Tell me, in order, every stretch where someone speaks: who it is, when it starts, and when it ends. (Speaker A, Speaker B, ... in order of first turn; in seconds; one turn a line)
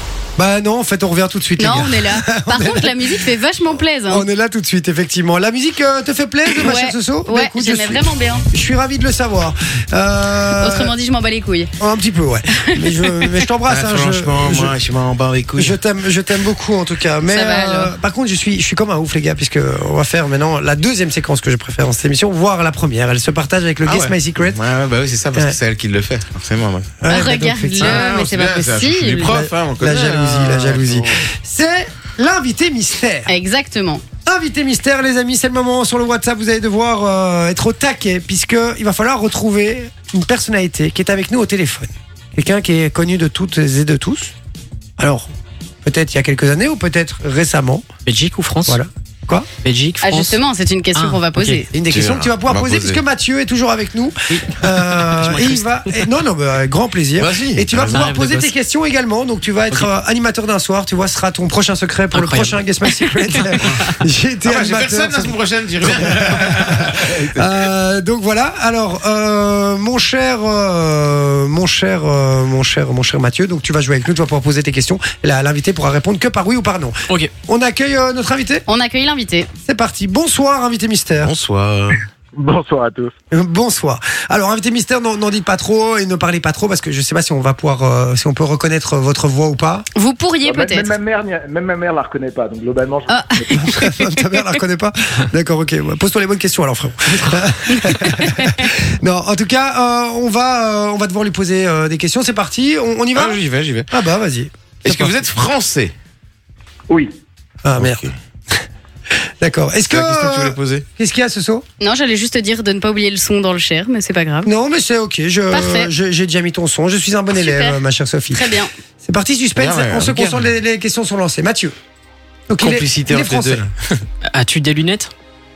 Speaker A: 0.4-3.2
Speaker B: 1.6-4.2
Speaker A: 4.1-10.9
Speaker B: 6.5-8.4
Speaker B: 10.6-11.7
Speaker A: 11.8-14.8
Speaker B: 12.6-13.3
Speaker C: 13.7-15.8
Speaker A: 15.6-24.6
Speaker B: 17.3-17.9
Speaker C: 23.8-27.0
Speaker A: 27.0-28.1
Speaker B: 27.1-29.4
Speaker C: 27.8-31.2
Speaker A: 29.3-33.3
Speaker B: 33.3-34.0
Speaker A: 34.2-44.3
Speaker A: 45.0-45.3
Speaker A: 45.8-47.9
Speaker D: 48.0-48.8
Speaker A: 48.7-49.5
Speaker D: 49.6-50.4
Speaker B: 50.0-51.7
Speaker D: 50.9-51.6
Speaker A: 51.7-78.6
Speaker C: 51.9-53.0
Speaker D: 54.3-56.0
Speaker C: 57.2-58.0
Speaker D: 57.8-58.5
Speaker D: 62.1-63.6
Speaker C: 64.4-67.7
Speaker B: 78.7-79.5
Speaker A: 79.6-81.3
Speaker C: 81.2-82.0
Speaker E: 82.3-83.2
Speaker A: 83.3-89.9
Speaker B: 90.0-90.9
Speaker E: 90.4-93.7
Speaker B: 93.1-94.0
Speaker A: 93.6-105.2
Speaker B: 97.7-98.5
Speaker C: 103.1-103.9
Speaker C: 104.8-105.9
Speaker E: 106.9-107.1
Speaker A: 107.6-108.6
Speaker C: 107.8-108.1
Speaker A: 109.1-111.6
Speaker C: 109.9-110.8
Speaker B: 111.8-114.5
Speaker A: 114.5-118.5
Speaker B: 115.5-115.9
Speaker B: 117.4-117.8
Speaker B: 118.3-118.7
Speaker A: 119.0-121.7
Speaker C: 119.5-120.4
Speaker A: 122.5-123.6
Speaker C: 122.6-124.0
Speaker D: 124.3-125.1